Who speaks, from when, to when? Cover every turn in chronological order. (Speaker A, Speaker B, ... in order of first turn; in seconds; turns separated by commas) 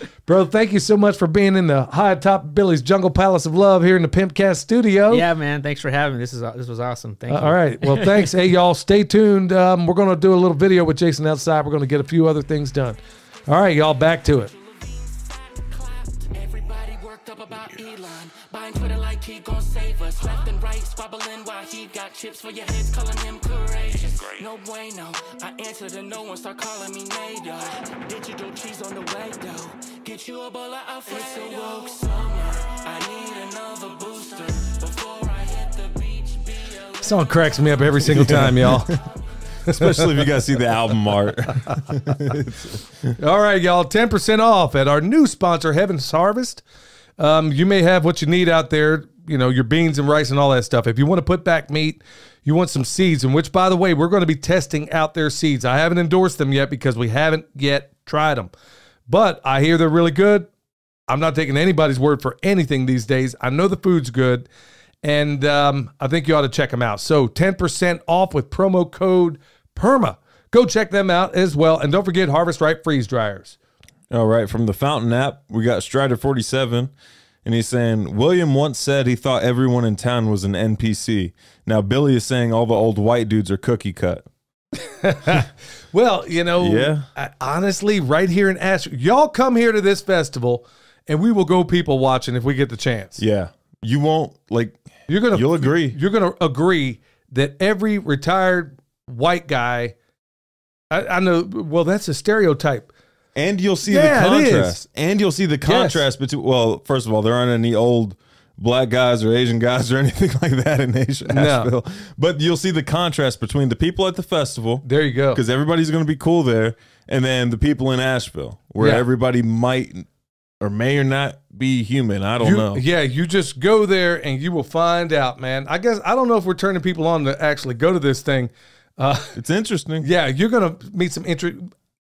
Speaker A: 0.3-5.2, Speaker B: 5.1-8.4, Speaker A: 7.3-14.5, Speaker C: 14.3-39.1, Speaker A: 37.0-38.9, Speaker D: 38.1-39.0, Speaker A: 39.7-40.4, Speaker D: 39.7-43.1, Speaker A: 41.7-42.1, Speaker A: 43.2-46.6, Speaker A: 47.2-58.5, Speaker A: 59.1-60.5, Speaker A: 61.1-64.5, Speaker A: 65.0-73.6, Speaker D: 74.1-76.9, Speaker D: 77.4-84.2, Speaker A: 84.8-93.2, Speaker D: 86.6-87.1, Speaker D: 93.2-94.8, Speaker A: 95.1-100.0, Speaker D: 95.3-96.0, Speaker A: 100.9-102.9, Speaker D: 103.3-120.1, Speaker A: 103.9-104.8, Speaker A: 105.7-106.0, Speaker A: 111.3-111.7, Speaker A: 114.8-115.4, Speaker A: 118.8-119.0, Speaker D: 120.6-122.8, Speaker A: 122.4-129.3, Speaker D: 129.4-130.1, Speaker A: 130.0-131.7